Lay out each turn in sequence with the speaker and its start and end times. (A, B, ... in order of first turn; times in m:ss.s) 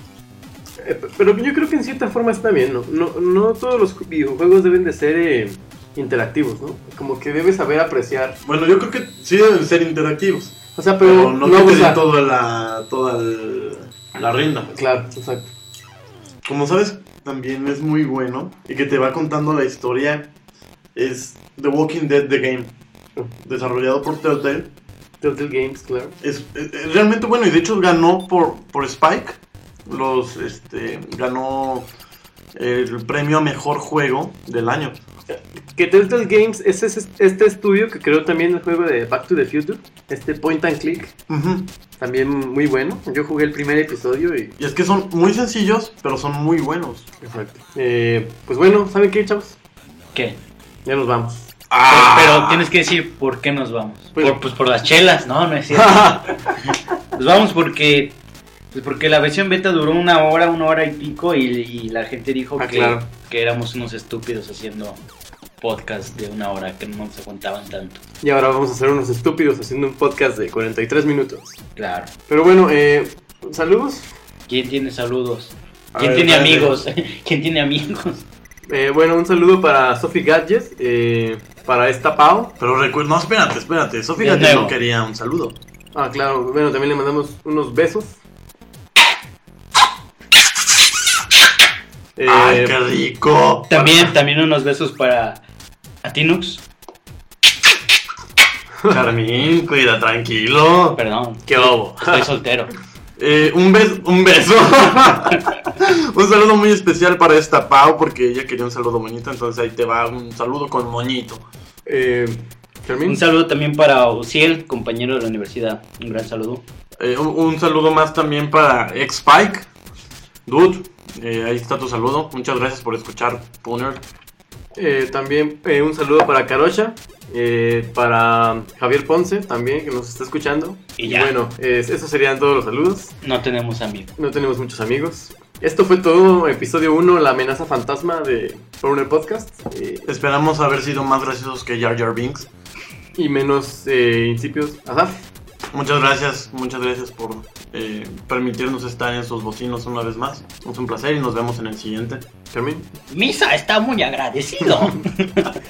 0:00.8-0:08.4 A
0:08.4-0:14.7 B
0:10.8-0:12.0 A
0:14.7-0:15.5 A
0:16.4-0:20.3 B
0:21.0-0:22.7 B
0:23.4-0:24.7 B
0:25.2-0:26.1 A
0:26.2-0:31.9 B
0:32.6-0:35.0 B
0:35.3-0:41.1 A
0:41.3-0:41.7 B
0:42.0-0:44.6 A
0:44.6-0:47.1 B
0:47.2-0:49.6 A
0:50.8-0:51.5 A
0:51.7-0:52.7 B
0:51.9-0:56.2 C
0:55.7-0:56.3 A
0:57.1-0:58.2 C
0:58.7-1:05.0 C
1:02.6-1:03.1 A
1:05.6-1:08.0 C
1:08.2-1:11.6 A
1:11.8-1:12.1 C
1:12.3-1:14.1 A
1:14.5-1:18.2 C
1:15.9-1:16.8 B
1:18.7-1:22.5 A
1:22.6-1:25.6 B
1:24.2-1:24.8 C
1:26.0-1:28.2 A
1:32.2-1:32.8 A
1:32.3-1:34.1 B
1:33.7-1:35.4 C
1:36.0-1:36.6 C
1:38.9-1:41.0 B
1:41.0-1:42.7 C
1:41.4-1:42.3 A
1:43.2-1:51.4 B
1:51.9-1:53.2 A
1:53.0-1:56.6 C
1:57.0-1:59.7 B
2:00.5-2:04.0 B
2:04.8-2:13.1 A
2:11.0-2:11.3 C
2:13.2-2:14.1 C
2:14.2-2:20.0 A
2:20.1-2:22.5 B
2:23.1-2:25.2 A
2:25.7-2:32.2 B
2:32.5-2:32.9 A
2:33.1-2:35.6 C